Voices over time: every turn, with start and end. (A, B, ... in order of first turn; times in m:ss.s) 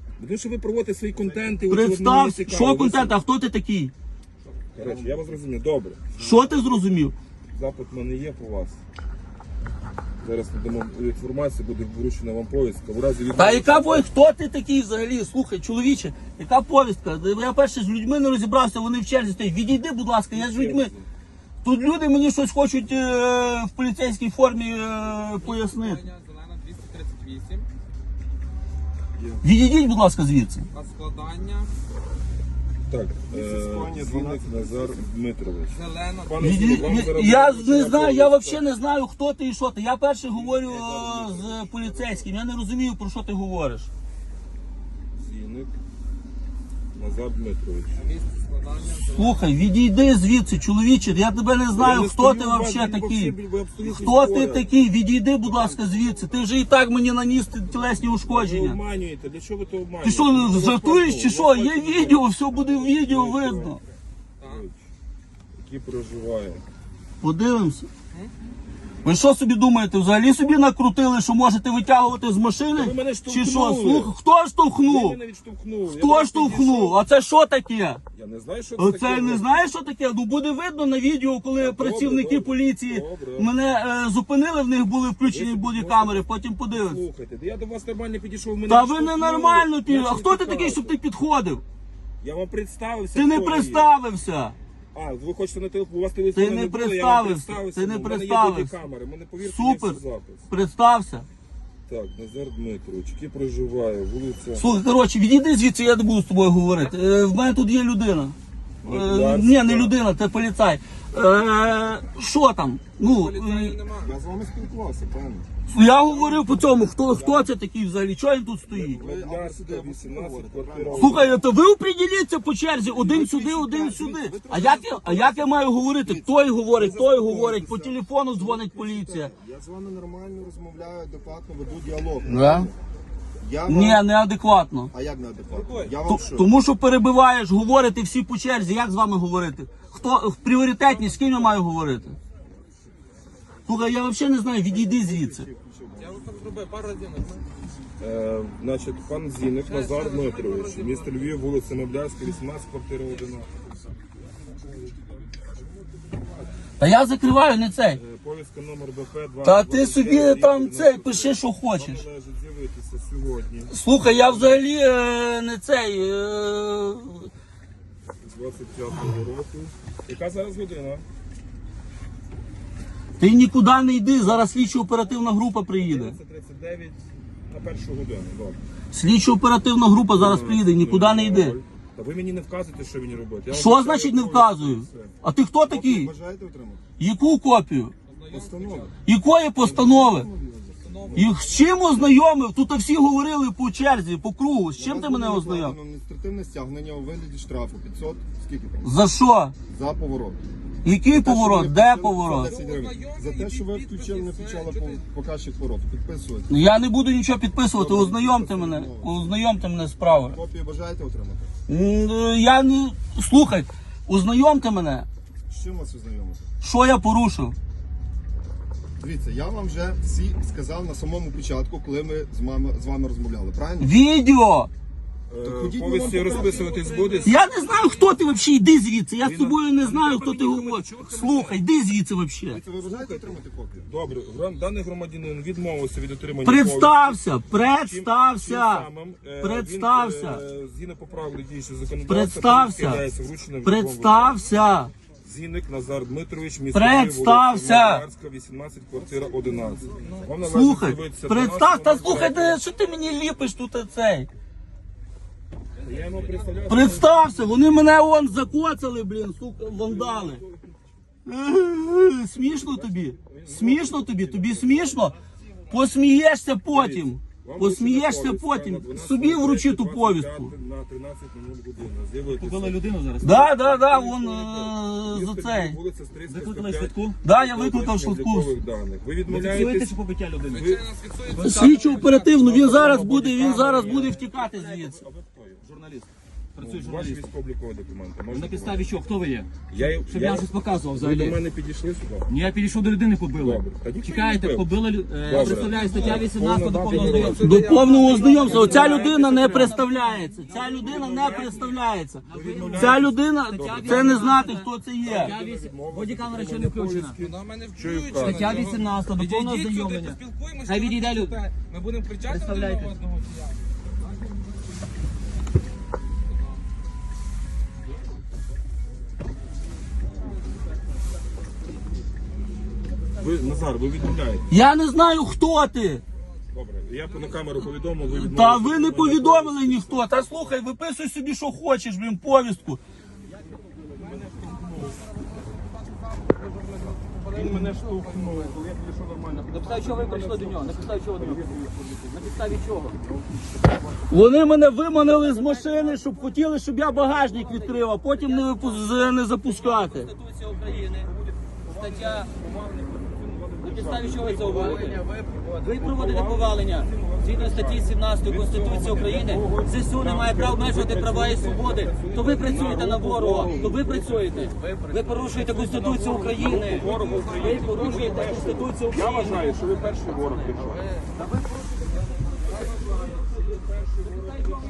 0:00.2-0:03.2 A
0:01.7-0:03.9 B
0:04.6-0:05.4 C
0:04.7-0:06.2 A
0:06.2-0:07.1 B
0:07.5-0:08.8 A
0:10.2-0:14.1 A
0:13.3-0:20.9 B
0:20.3-0:21.1 A
0:21.6-0:26.0 B
0:25.2-0:27.7 D
0:29.2-0:29.4 C
0:29.4-0:30.7 B
0:30.7-0:31.8 D
0:32.9-0:38.6 A
0:33.3-0:35.0 C
0:35.7-0:36.4 D
0:36.4-0:43.9 B
0:40.3-0:42.3 A
0:45.2-0:45.7 A
0:46.9-0:48.0 A
0:47.9-0:49.4 D
0:49.0-0:58.8 B
0:51.7-0:54.8 A
0:58.3-1:03.8 A
1:00.0-1:03.8 B
1:04.4-1:04.8 A
1:05.6-1:06.6 A
1:07.2-1:07.9 B
1:09.0-1:15.2 B
1:12.8-1:14.1 A
1:14.8-1:17.0 A
1:15.9-1:18.0 B
1:18.2-1:19.5 A
1:18.8-1:27.0 B
1:21.6-1:23.5 A
1:25.3-1:31.0 A
1:28.7-1:31.6 B
1:32.2-1:33.9 A
1:33.1-1:34.6 B
1:34.9-1:40.5 A
1:36.3-1:38.8 B
1:39.4-1:41.3 B
1:41.9-1:44.6 A
1:44.6-1:53.8 B
1:48.8-1:50.0 A
1:53.0-1:54.1 D
1:54.0-1:55.5 C
1:55.7-1:59.0 B
1:56.1-1:57.5 A
1:58.7-2:01.4 A
1:58.9-2:01.3 C
2:01.0-2:09.3 B
2:02.8-2:12.8 C
2:13.4-2:14.0 C
2:13.7-2:14.9 B
2:14.9-2:16.5 C
2:15.5-2:15.9 A
2:16.1-2:22.2 B
2:23.7-2:25.5 B
2:24.7-2:26.4 C
2:26.0-2:27.5 D
2:28.0-2:33.5 A
2:29.7-2:31.2 D
2:36.8-2:38.0 B
2:38.0-2:44.6 A
2:39.4-2:42.0 B
2:43.7-2:47.3 B
2:48.2-2:51.0 A
2:53.2-2:56.2 B
2:55.7-2:58.6 A
2:58.9-3:01.6 B
3:00.1-3:05.1 A
3:03.5-3:06.1 B
3:05.6-3:06.8 C
3:07.0-3:07.9 B
3:08.1-3:08.9 D
3:08.3-3:08.9 C
3:09.0-3:10.3 B
3:09.6-3:11.3 C
3:10.8-3:12.1 D
3:11.2-3:15.8 B
3:14.8-3:18.9 C
3:18.8-3:19.5 B
3:19.7-3:20.4 C
3:20.8-3:22.6 B
3:21.1-3:26.5 C
3:22.4-3:25.1 D
3:26.5-3:30.4 B
3:27.7-3:29.4 C
3:30.2-3:31.5 C
3:31.7-3:35.1 B
3:35.5-3:36.5 C
3:36.6-3:37.6 B
3:39.0-3:43.9 C
3:43.8-3:44.7 B
3:45.3-3:47.4 A
3:45.4-3:47.3 C
3:47.2-3:52.6 B
3:49.2-3:51.6 A
3:52.5-3:53.9 C
3:52.5-3:57.2 A
3:56.4-3:58.9 B
3:57.8-4:04.4 A
3:59.4-4:00.4 B
4:02.1-4:03.0 B
4:03.6-4:04.9 B
4:05.2-4:12.6 A
4:06.7-4:08.0 B
4:09.9-4:10.3 D
4:10.4-4:14.3 B
4:15.8-4:17.2 A
4:16.0-4:16.6 D
4:16.7-4:20.4 B
4:19.7-4:20.9 A
4:21.3-4:25.2 B
4:22.5-4:25.0 A
4:25.7-4:30.5 B
4:26.7-4:32.8 A
4:32.4-4:33.5 E
4:33.2-4:35.8 B
4:33.4-4:39.9 A
4:36.3-4:37.2 E
4:37.2-4:38.5 B
4:39.3-4:41.8 E
4:40.5-4:42.5 D
4:40.5-4:40.8 A
4:41.4-4:45.0 B
4:42.4-4:45.6 A
4:42.5-4:44.2 E
4:45.6-4:47.3 E
4:46.6-4:48.9 A
4:48.3-4:49.5 E
4:49.7-4:52.3 A
4:50.1-4:51.4 E
4:52.3-4:57.6 E
4:53.4-4:54.7 A
4:55.2-4:59.7 A
4:55.7-4:56.3 D
4:56.9-4:59.3 D
4:57.2-5:05.4 B
4:58.2-5:01.2 E
5:00.5-5:01.6 A
5:00.9-5:01.8 D
5:02.3-5:03.0 E
5:02.3-5:04.4 A
5:03.5-5:07.2 E
5:05.0-5:08.6 A
5:07.2-5:13.6 D
5:08.2-5:11.4 E
5:12.2-5:13.0 E
5:23.2-5:24.5 A
5:24.5-5:26.0 B
5:26.5-5:30.2 A
5:28.1-5:32.8 B
5:34.0-5:35.0 A
5:35.9-5:38.6 D
5:37.3-5:41.7 A
5:39.5-5:43.0 E
5:44.1-5:50.1 B
5:49.6-5:51.1 E
5:51.0-5:55.1 A
5:51.7-5:52.3 E
5:53.6-6:10.3 E
5:55.7-6:04.5 A
6:03.3-6:03.8 C
6:05.3-6:10.9 A
6:06.7-6:08.5 D